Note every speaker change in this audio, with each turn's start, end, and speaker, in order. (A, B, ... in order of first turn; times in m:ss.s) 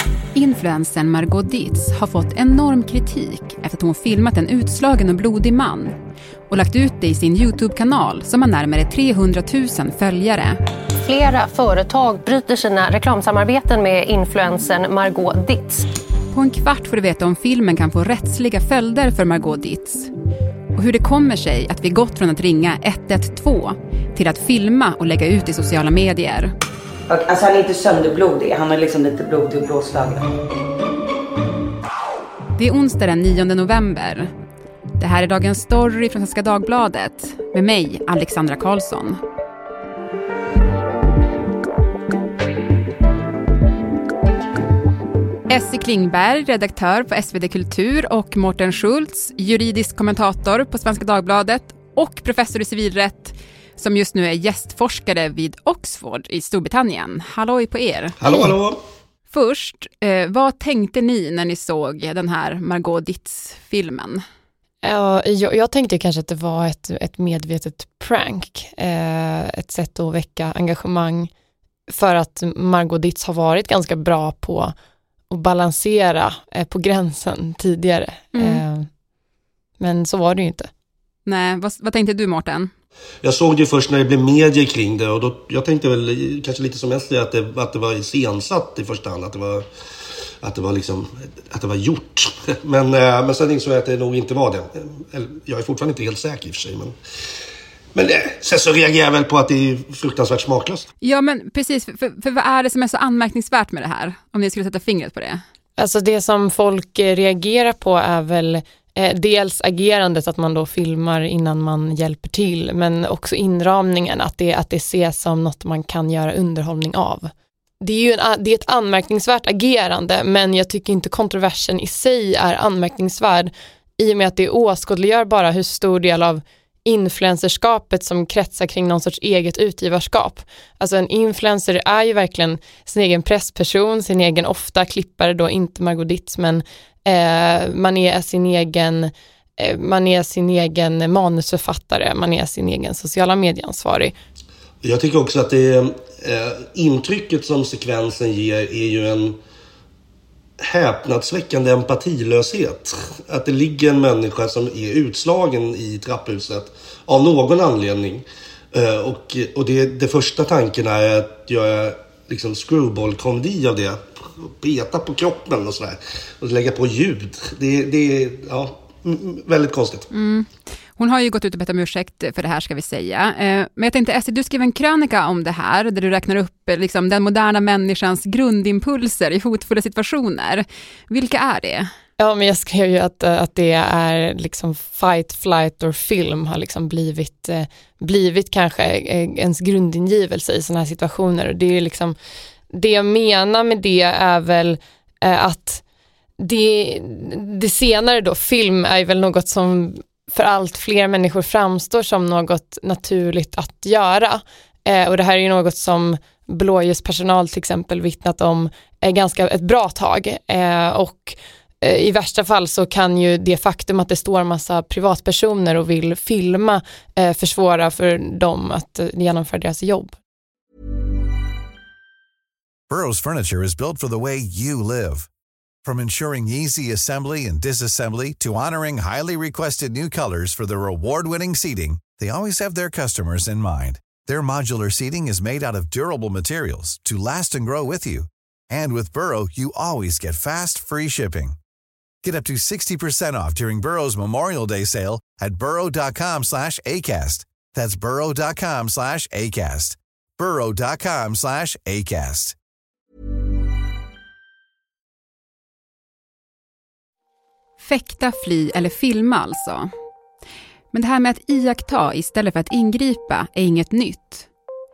0:00.3-0:05.9 A
0:06.5-0:10.6 A
0:11.0-0:15.8 B
0:16.3-0:20.1 A
0:20.7-0:26.5 A
0:27.1-0:30.3 C
0:32.6-0:34.3 A
0:35.0-0:39.2 A
0:45.5-0:58.2 A
0:58.2-0:58.8 D
0:59.3-1:04.2 A
1:04.8-1:11.3 E
1:11.9-1:14.7 E
1:15.3-1:18.9 E
1:18.3-1:18.6 A
1:19.8-1:20.7 E
1:21.2-1:22.7 A
1:23.2-1:29.6 D
1:30.4-1:37.0 D
1:38.0-1:40.8 D
1:41.0-1:45.4 A
1:45.8-1:57.3 E
1:57.8-2:24.1 E
2:24.8-2:29.4 D
2:30.6-2:50.0 D
2:50.1-3:01.9 A
3:02.2-3:12.2 E
3:12.7-3:15.8 E
3:16.4-3:40.2 E
3:42.9-3:45.3 F
3:45.8-4:01.6 F
4:02.2-4:12.6 F
4:17.8-4:19.9 A
4:20.9-4:24.5 A